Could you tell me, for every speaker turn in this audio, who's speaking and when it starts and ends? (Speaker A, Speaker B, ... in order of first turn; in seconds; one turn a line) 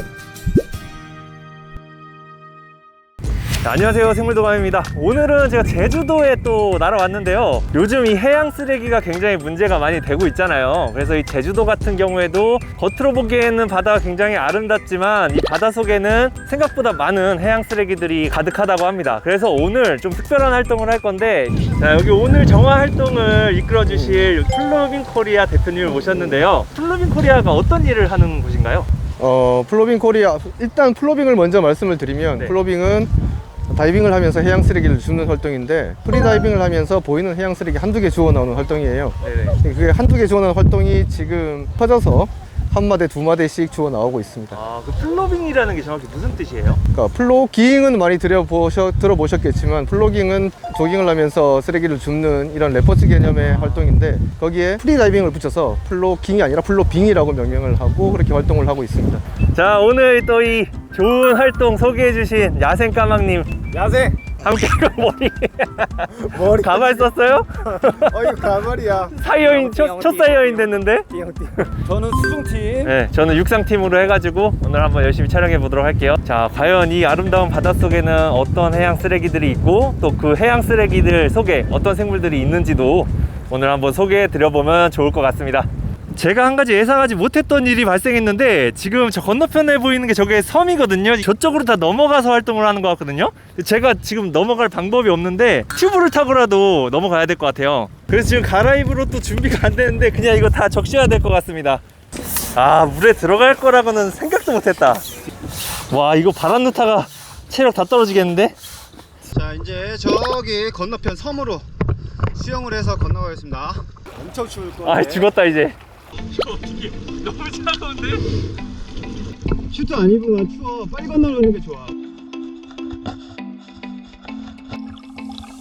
Speaker A: 3.6-28.9
Speaker B: 29.2-33.1
Speaker B: 33.7-44.6
Speaker A: 39.2-39.6
Speaker A: 44.5-46.8
Speaker B: 46.9-59.2
Speaker A: 53.4-53.9
Speaker A: 59.5-63.5
Speaker C: 63.7-64.2
Speaker A: 64.4-68.3
Speaker C: 66.3-67.1
Speaker C: 67.8-70.6
Speaker A: 69.1-71.7
Speaker C: 71.8-72.9
Speaker A: 72.8-101.8
Speaker A: 102.5-105.0
Speaker A: 105.9-108.5
Speaker C: 109.3-111.7
Speaker C: 112.3-115.3
Speaker A: 114.8-115.8
Speaker A: 116.5-118.2
Speaker C: 119.7-121.9